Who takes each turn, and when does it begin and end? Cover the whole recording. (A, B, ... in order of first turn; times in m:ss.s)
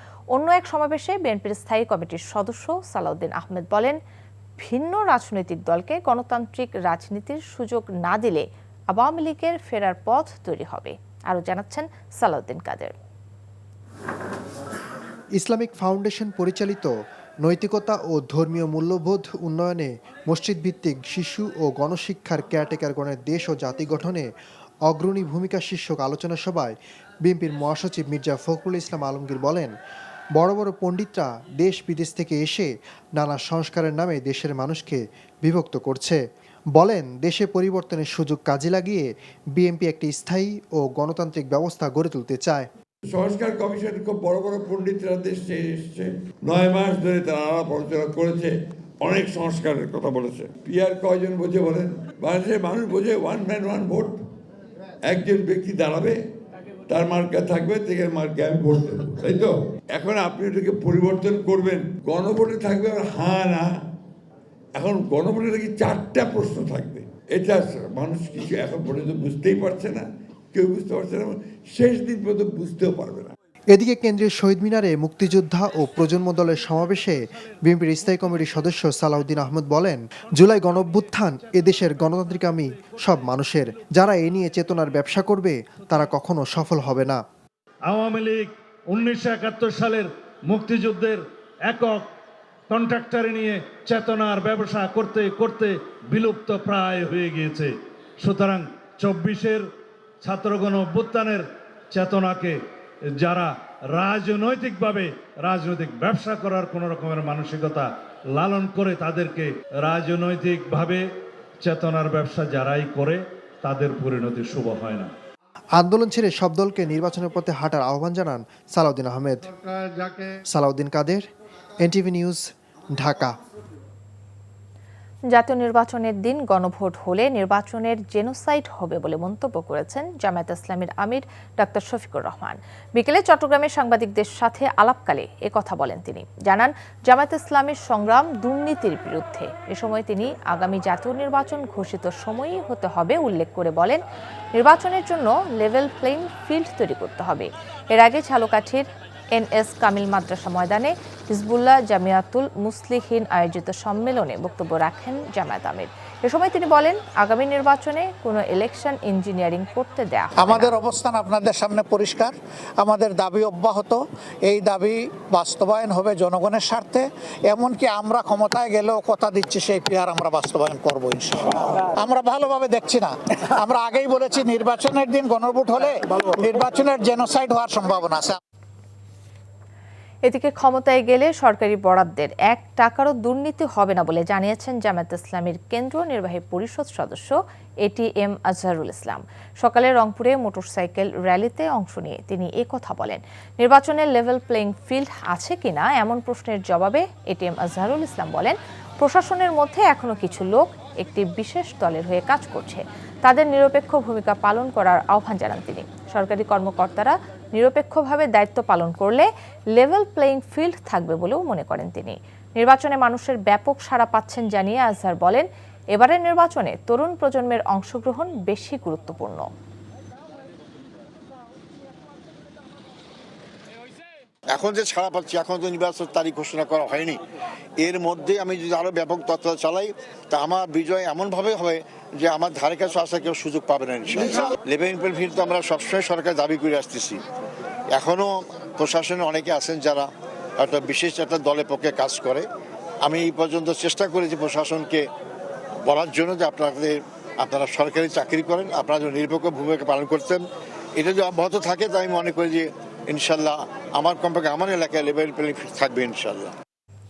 0:00.3-0:04.0 A
0:04.6-0:13.0 A
0:15.4-0:16.9 B
0:17.4-0:24.3 B
0:24.9-0:29.7 B
0:30.4-0:36.2 B
0:36.8-0:42.7 B
0:43.1-0:54.2 C
0:55.1-0:56.2 C
0:56.9-1:03.7 C
1:04.8-1:13.3 C
1:13.7-1:27.2 B
1:27.9-1:32.1 D
1:32.7-1:39.7 D
1:40.2-1:42.6 D
1:43.2-1:51.1 D
1:51.6-1:55.1 D
1:55.8-1:59.7 B
2:00.3-2:01.2 B
2:01.8-2:02.4 B
2:03.0-2:03.3 B
2:05.3-2:24.0 A
2:24.6-2:40.7 A
2:40.4-2:58.4 E
3:00.2-3:39.4 A
3:44.6-3:47.2 F
3:47.8-3:57.2 F
3:57.9-4:00.1 F
4:00.6-4:02.4 F
4:03.0-4:05.0 F
4:05.8-4:10.4 F
4:11.0-4:16.5 F